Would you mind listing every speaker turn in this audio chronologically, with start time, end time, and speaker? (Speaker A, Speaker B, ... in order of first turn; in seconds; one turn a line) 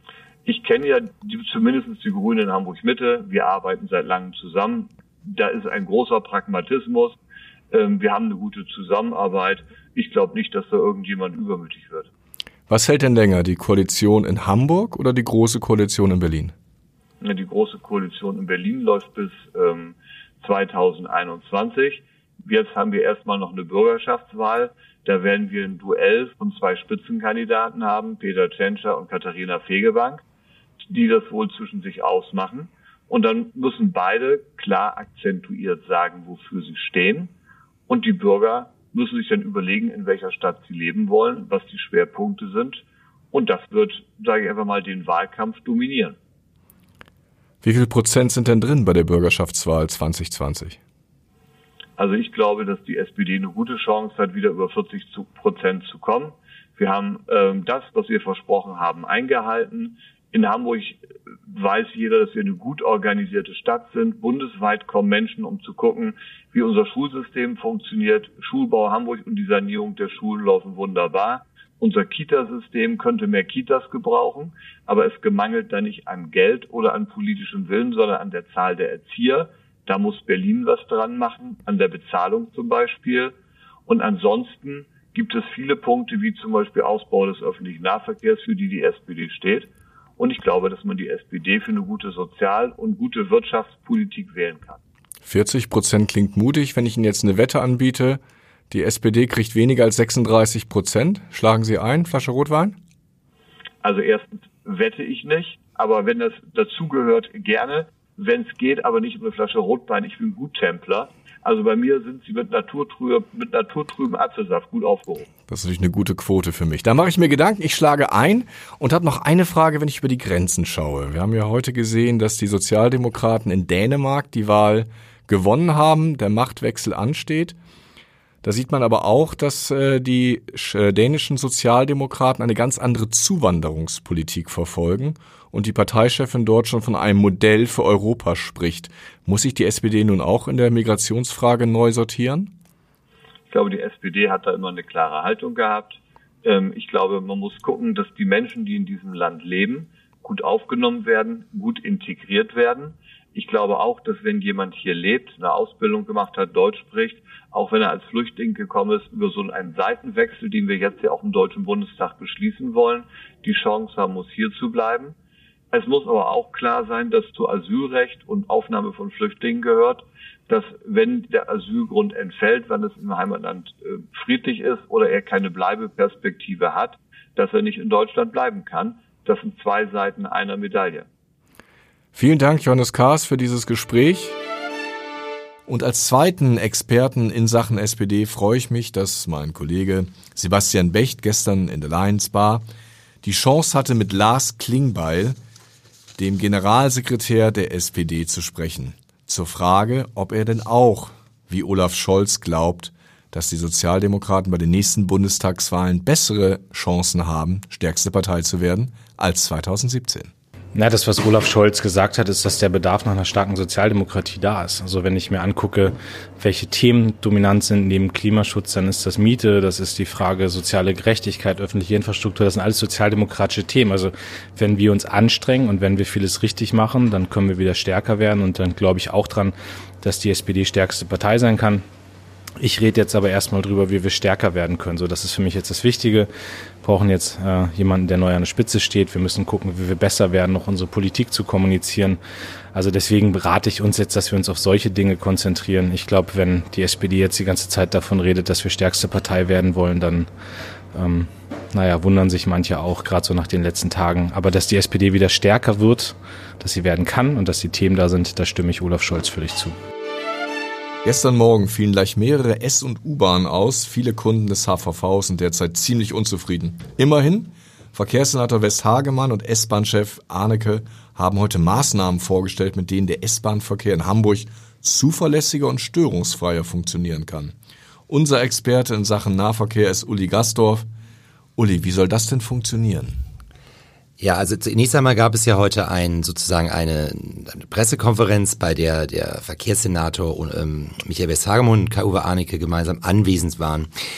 Speaker A: 0.4-7.2
Speaker A: 7.7-12.1
Speaker B: 12.7-16.5
Speaker A: 17.2-30.2
Speaker A: 30.9-37.3
Speaker A: 37.9-46.2
Speaker B: 47.6-50.8
Speaker A: 52.0-83.3
Speaker A: 83.9-94.8
Speaker B: 95.2-102.8
Speaker A: 103.8-115.3
Speaker B: 115.5-127.5
Speaker B: 128.4-142.5
Speaker A: 143.5-165.1
Speaker A: 165.7-181.1
Speaker B: 182.1-184.3
Speaker B: 185.7-192.6
Speaker B: 193.2-195.4
Speaker B: 196.2-210.3
Speaker C: 210.7-231.8
Speaker C: 232.6-236.3
Speaker C: 236.8-242.2
Speaker C: 242.7-250.3
Speaker C: 250.9-259.7
Speaker B: 261.0-277.5
Speaker B: 278.1-280.9
Speaker B: 281.6-283.2
Speaker D: 284.2-293.9